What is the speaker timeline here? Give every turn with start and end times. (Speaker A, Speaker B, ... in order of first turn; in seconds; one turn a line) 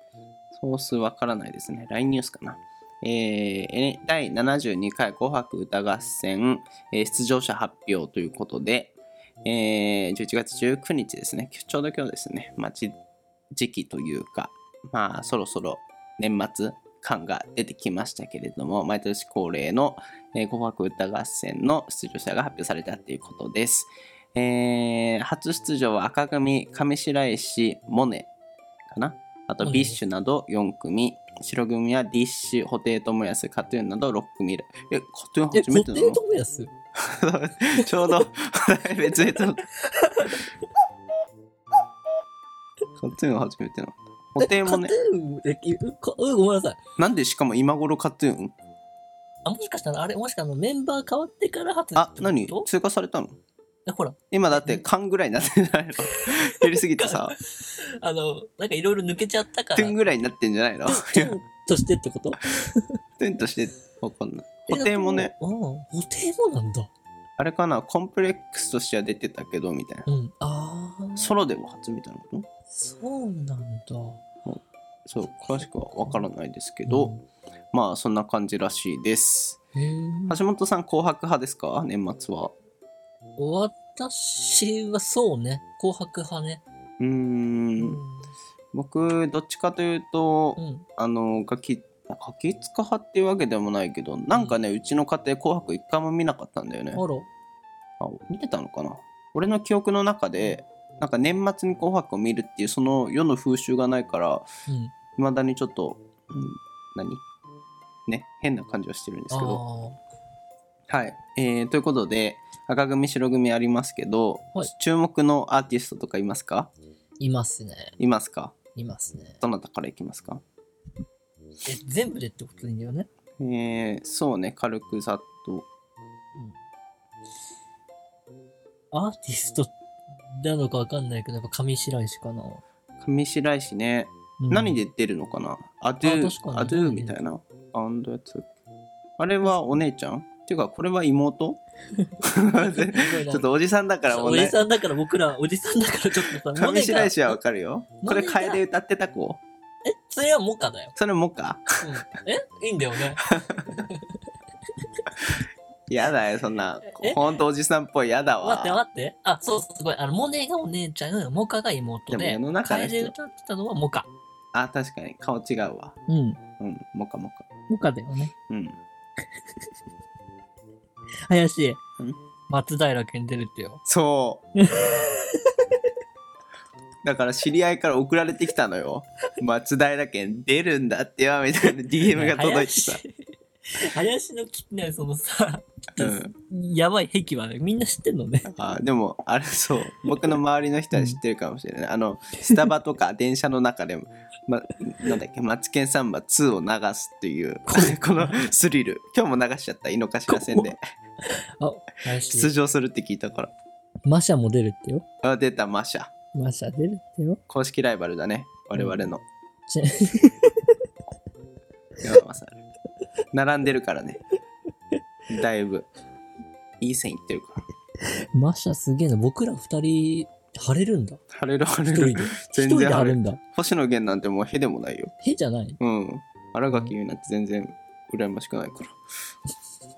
Speaker A: 0.5-13.0
Speaker A: 13.5-28.3
Speaker A: 28.9-36.2
Speaker B: 29.6-30.0
Speaker B: 35.5-36.7
Speaker A: 37.0-39.6
Speaker B: 37.8-38.1
Speaker B: 39.1-40.5
Speaker A: 43.0-45.0
Speaker B: 44.4-46.8
Speaker A: 47.0-48.5
Speaker B: 49.5-52.7
Speaker A: 52.0-53.4
Speaker B: 53.9-54.8
Speaker A: 54.3-57.4
Speaker B: 57.0-60.1
Speaker A: 59.8-61.4
Speaker B: 60.9-63.0
Speaker A: 63.2-65.3
Speaker B: 64.7-66.9
Speaker A: 67.4-70.1
Speaker B: 70.1-71.3
Speaker A: 71.2-72.5
Speaker B: 72.7-74.2
Speaker A: 74.5-77.1
Speaker B: 76.0-76.2
Speaker B: 76.9-77.2
Speaker A: 77.7-79.6
Speaker B: 79.8-80.4
Speaker A: 80.3-82.5
Speaker B: 83.4-86.6
Speaker A: 87.0-88.0
Speaker B: 87.8-88.3
Speaker A: 88.7-97.0
Speaker B: 90.6-90.9
Speaker B: 94.3-94.6
Speaker B: 96.9-97.3
Speaker A: 98.0-104.5
Speaker B: 104.7-105.0
Speaker A: 105.2-107.2
Speaker A: 108.1-109.6
Speaker B: 109.3-110.0
Speaker A: 110.9-116.7
Speaker B: 117.2-118.0
Speaker A: 118.0-118.6
Speaker B: 118.8-119.4
Speaker A: 119.4-120.4
Speaker B: 121.7-123.1
Speaker A: 123.4-125.7
Speaker B: 128.9-129.7
Speaker B: 130.3-132.6
Speaker A: 133.0-138.5
Speaker B: 134.4-134.8
Speaker B: 136.0-137.2
Speaker A: 139.2-141.6
Speaker B: 139.4-139.8
Speaker B: 142.0-143.5
Speaker A: 142.3-144.6
Speaker B: 144.1-147.4
Speaker A: 146.2-149.4
Speaker B: 148.0-148.6
Speaker B: 149.8-150.9
Speaker A: 151.0-151.7
Speaker B: 151.8-154.2
Speaker A: 155.9-158.8
Speaker B: 156.8-157.2
Speaker B: 158.4-164.1
Speaker A: 162.1-163.2
Speaker A: 164.5-166.0
Speaker B: 166.1-166.4
Speaker A: 166.6-167.5
Speaker B: 167.7-168.3
Speaker A: 168.5-168.8
Speaker B: 171.3-171.8
Speaker B: 172.5-173.8
Speaker A: 173.9-174.5
Speaker B: 174.6-175.5
Speaker A: 177.0-183.0
Speaker B: 181.7-183.1
Speaker B: 183.8-188.5
Speaker A: 186.0-186.3
Speaker A: 188.5-200.8
Speaker B: 190.9-191.2
Speaker B: 197.7-198.5
Speaker B: 200.3-200.8
Speaker B: 201.6-202.5
Speaker A: 202.3-203.5
Speaker B: 204.1-205.1
Speaker A: 205.2-206.1
Speaker B: 206.3-207.4
Speaker A: 207.5-209.2
Speaker B: 208.8-209.1
Speaker B: 209.7-210.5
Speaker A: 212.0-212.6
Speaker A: 213.3-214.2
Speaker A: 215.3-215.9
Speaker A: 216.8-217.7
Speaker B: 218.3-221.2
Speaker A: 221.3-225.1
Speaker B: 221.9-223.4
Speaker B: 225.2-225.8
Speaker A: 225.8-229.0
Speaker B: 226.7-226.9